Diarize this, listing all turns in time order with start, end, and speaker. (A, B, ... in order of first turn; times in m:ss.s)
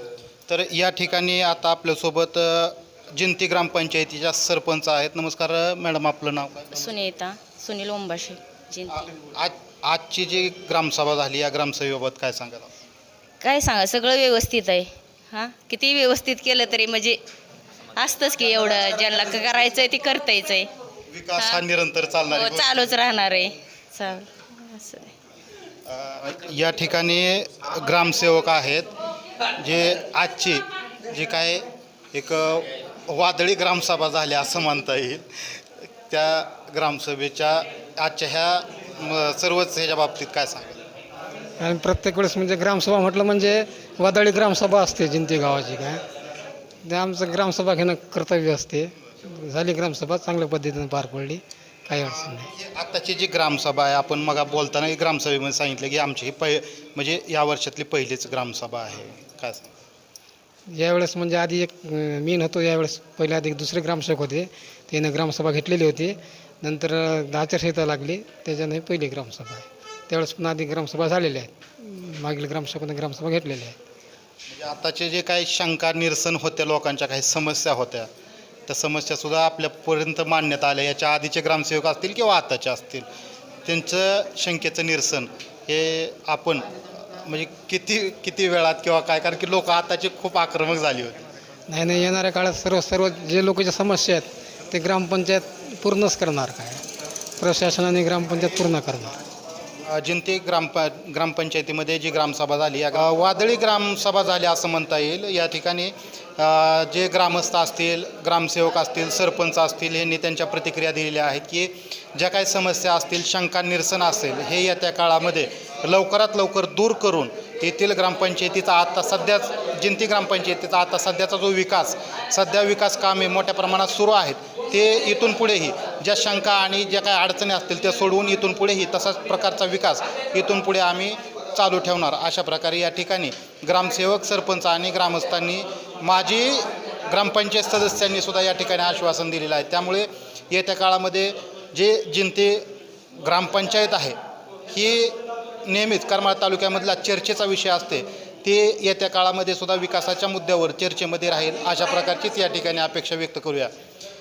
0:00.5-0:06.9 A
0:06.7-0:09.1 B
0:08.9-0:12.7 A
0:13.4-0:17.2 B
0:18.0-0:20.7 B
0:21.1-0:22.9 A
0:21.4-0:21.6 B
0:22.3-0:25.1 B
0:25.9-0:28.9 A
0:29.6-0:40.8 A
0:41.6-0:46.0 C
0:46.8-0:52.5 C
0:52.1-0:59.7 A
1:00.7-1:13.8 C
1:14.5-1:18.1 A
1:18.7-1:23.1 A
1:23.6-1:31.2 A
1:31.7-1:36.8 C
1:37.4-1:39.2 C
1:39.8-2:22.6 A
2:23.2-2:24.2 A
2:24.7-2:33.7 A